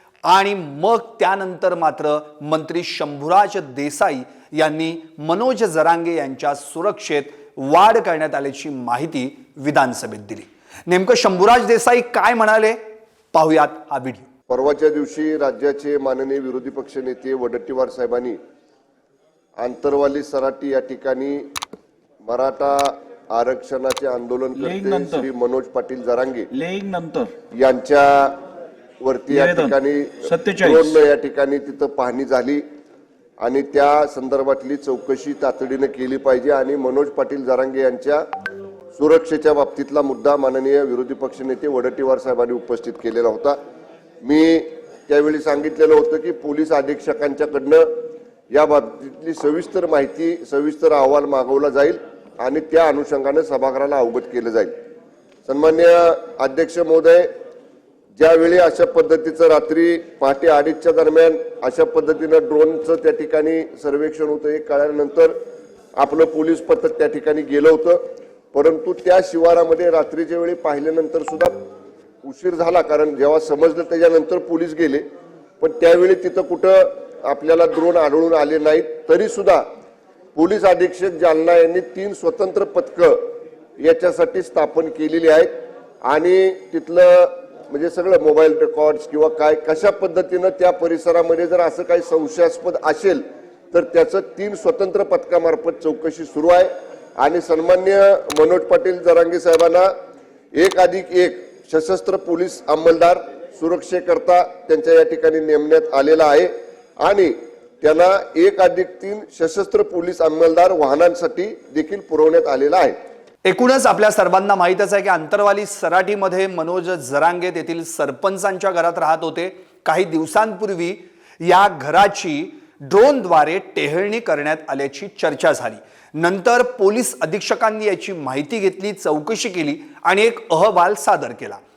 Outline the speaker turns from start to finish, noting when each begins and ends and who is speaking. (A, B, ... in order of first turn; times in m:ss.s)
0:00.2-0:12.8 A
0:13.3-0:14.3 A
0:14.5-0:18.4 B
0:19.6-0:21.5 B
0:22.2-0:26.5 B
0:24.6-0:25.2 C
0:26.5-0:27.3 C
0:27.5-0:28.4 B
0:29.0-0:32.6 B
0:29.3-0:31.0 C
0:33.4-0:38.2 B
0:38.9-0:43.6 B
0:44.2-0:47.9 B
0:48.5-0:54.7 B
0:55.4-0:57.3 B
0:58.2-1:05.3 B
1:06.0-1:08.0 B
1:08.5-1:11.6 B
1:12.2-1:15.0 B
1:15.6-1:19.6 B
1:20.3-1:23.2 B
1:23.8-1:25.5 B
1:26.0-1:39.9 B
1:40.5-1:52.9 B
1:53.4-2:11.6 A